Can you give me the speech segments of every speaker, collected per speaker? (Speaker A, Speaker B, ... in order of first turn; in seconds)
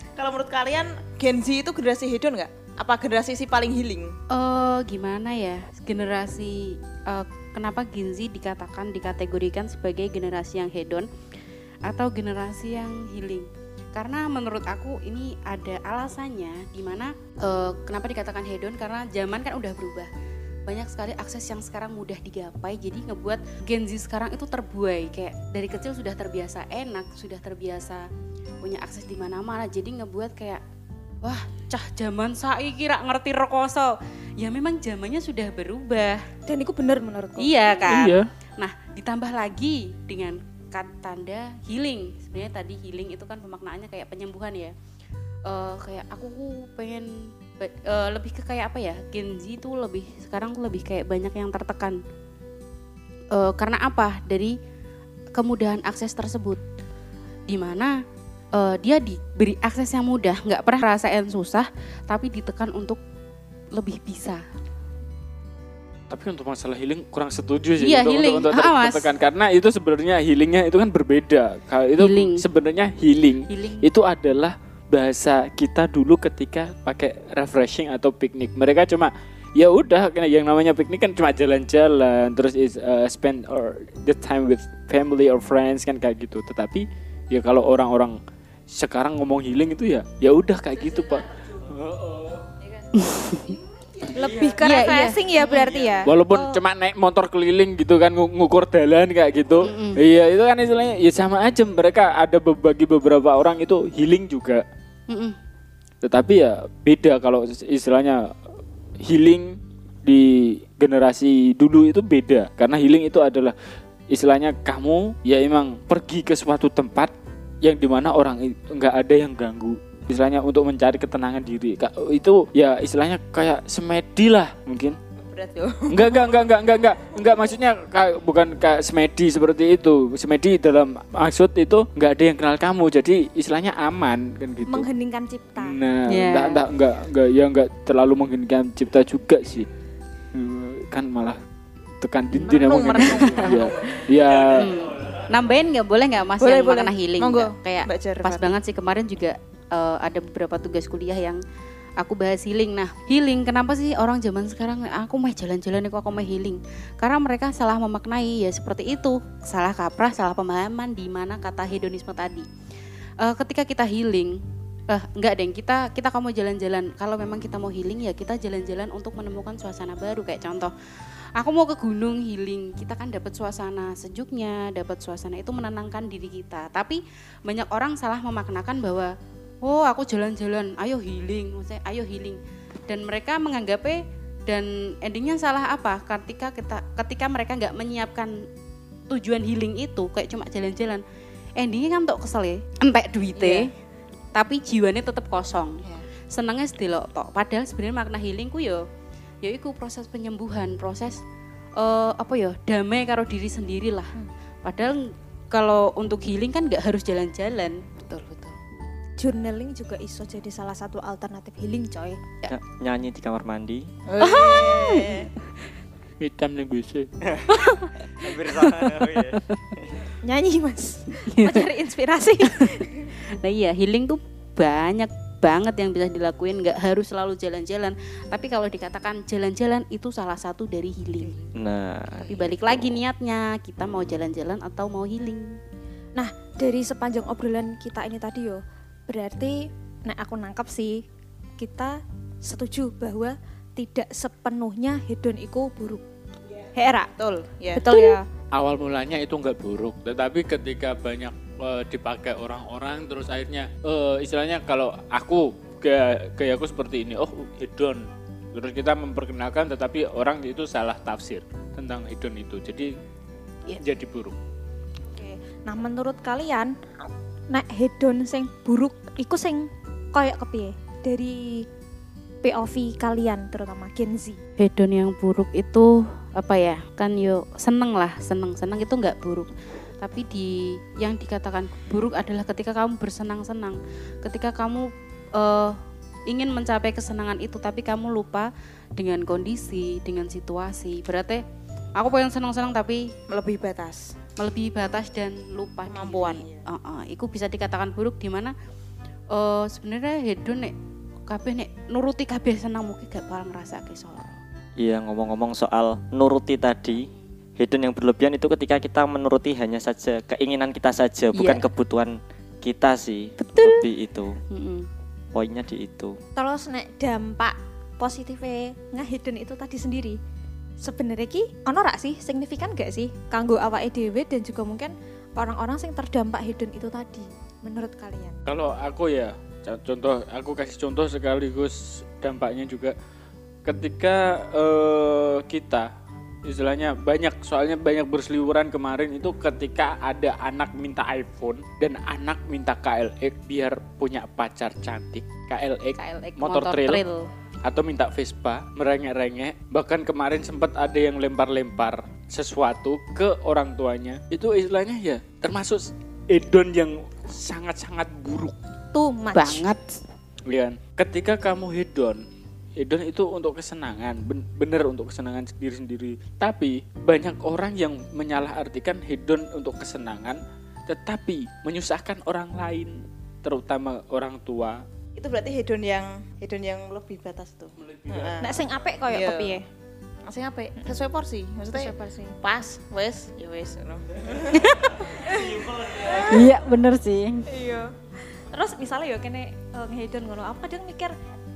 Speaker A: 0.2-4.2, 94.0-94.3, 95.7-96.0, 125.2-126.4, 142.4-143.7, 146.4-148.6, 193.4-193.7, 214.1-215.3, 247.2-247.8, 293.3-294.1, 295.9-296.6, 375.2-379.6, 380.3-386.2
Speaker B: 4.3-11.1, 11.9-20.1, 20.7-28.1, 28.6-30.6, 31.2-36.3, 37.4-44.7, 45.5-52.0, 53.3-54.5, 55.4-56.6, 57.5-58.0, 58.5-63.0, 63.7-64.4, 67.8-69.1, 72.0-72.4, 73.5-73.9, 93.0-93.6, 94.6-95.7, 99.6-100.0, 105.1-105.4, 136.1-136.7, 142.3-143.9, 144.5-151.4, 152.0-162.5, 163.2-170.7, 171.4-188.3, 189.1-191.0, 191.6-193.7, 194.3-198.9, 199.4-201.2, 201.8-204.1, 204.6-208.6, 214.2-215.3, 221.2-221.7, 222.4-222.8, 223.4-231.4, 232.3-235.6, 274.6-291.4, 292.0-293.1, 294.4-298.6, 299.3-300.7, 301.3-304.4, 311.3-311.6, 314.5-314.9, 345.9-347.3, 359.3-359.9, 386.2-387.4
Speaker C: 36.5-37.8, 94.1-96.6, 134.7-135.8, 209.2-212.2, 220.2-223.1, 236.2-241.0, 241.6-246.0, 246.7-247.1, 247.7-248.2, 265.1-266.7, 267.5-271.7, 272.4-274.4, 316.4-320.2, 320.8-328.4, 358.9-359.7, 378.4-379.6, 381.7-382.4, 385.3-386.4, 387.5-387.9, 388.5-391.1
Speaker D: 37.9-38.3, 66.1-88.2, 88.7-92.4, 96.1-104.6, 106.0-108.3, 109.0-113.5, 114.1-125.0, 125.9-134.9, 135.6-139.7, 140.3-141.4, 142.0-144.7, 216.2-217.5, 248.5-262.9, 263.8-264.4, 328.5-333.0, 333.6-335.9, 336.4-347.0, 347.6-358.6, 360.5-362.2, 362.8-374.8, 377.8-378.4
Speaker E: 212.5-213.9, 217.3-217.6, 218.2-220.0, 231.6-232.4, 304.8-314.4, 315.3-316.2